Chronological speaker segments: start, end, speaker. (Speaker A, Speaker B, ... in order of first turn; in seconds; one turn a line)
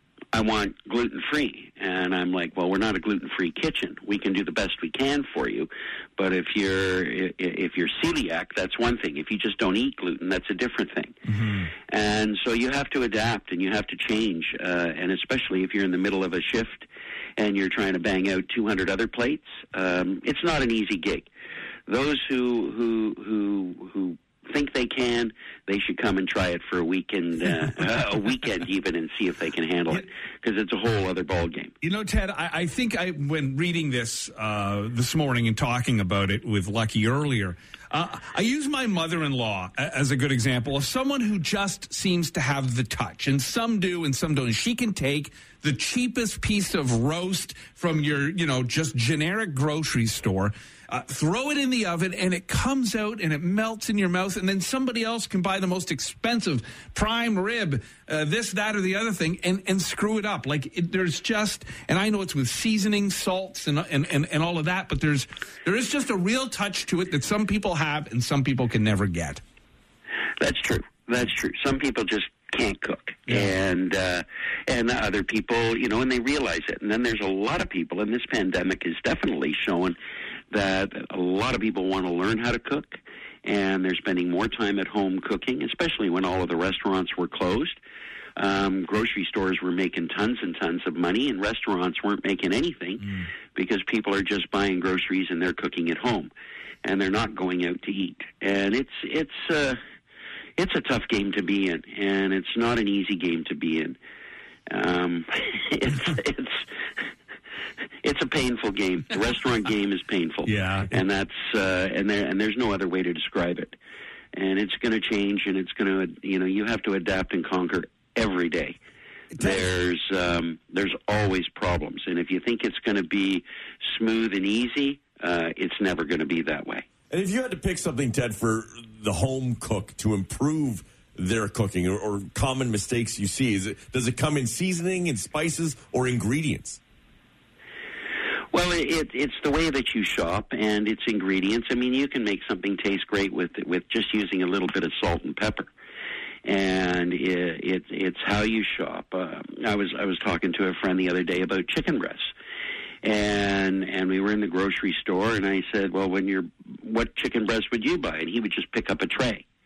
Speaker A: 0.3-11.2
Speaker B: 11.3-11.7
Speaker A: 11.9-16.9
Speaker A: 17.4-21.3
Speaker A: 21.9-31.7
Speaker B: 31.8-69.4
Speaker A: 70.4-80.0
Speaker A: 80.5-87.8
Speaker A: 88.3-96.3
Speaker B: 93.0-93.3
Speaker A: 96.8-99.8
Speaker A: 100.6-104.0
Speaker A: 104.7-106.7
Speaker A: 108.0-113.8
Speaker B: 110.5-110.9
Speaker A: 114.3-118.8
Speaker A: 119.4-126.8
Speaker C: 127.1-136.8
Speaker A: 138.5-145.7
Speaker A: 146.4-152.3
Speaker A: 153.0-159.4